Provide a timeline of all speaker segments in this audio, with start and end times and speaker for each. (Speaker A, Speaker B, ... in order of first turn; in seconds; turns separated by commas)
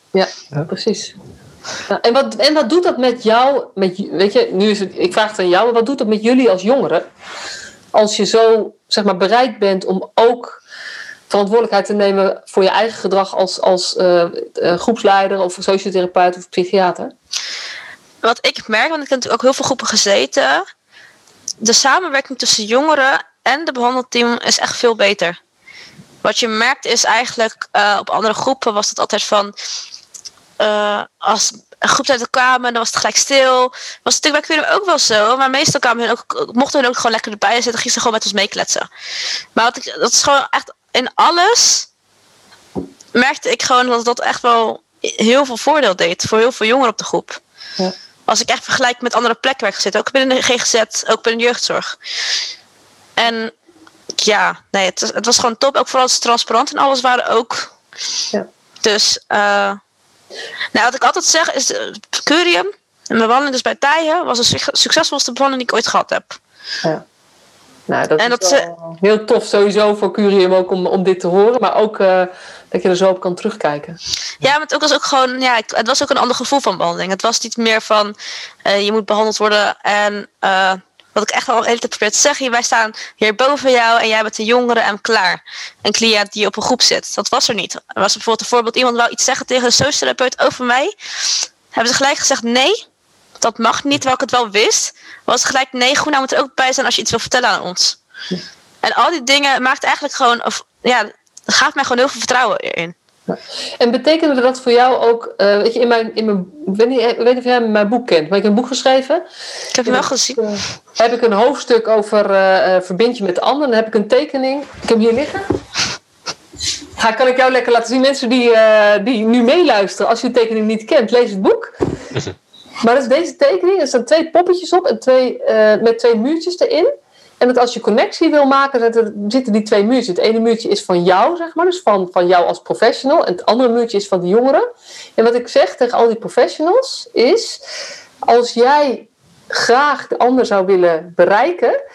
Speaker A: 0.1-1.1, Speaker A: 1.9-7.0, Speaker A: 7.9-10.6, Speaker A: 11.3-17.1, Speaker B: 18.2-20.6, Speaker B: 21.6-25.4, Speaker B: 26.2-29.5, Speaker B: 30.6-38.9, Speaker B: 39.5-41.9, Speaker B: 43.1-47.4, Speaker B: 48.3-52.0, Speaker B: 53.2-53.5, Speaker B: 54.2-57.7, Speaker B: 58.8-59.8, Speaker B: 60.7-66.4, Speaker A: 67.9-74.0, Speaker B: 68.2-68.6, Speaker B: 74.4-92.8, Speaker B: 93.4-98.0, Speaker B: 98.8-102.9, Speaker A: 103.3-109.2, Speaker B: 109.7-110.4, Speaker A: 109.8-115.4, Speaker A: 117.0-121.7, Speaker A: 122.8-134.6, Speaker A: 135.2-137.6, Speaker A: 138.2-141.8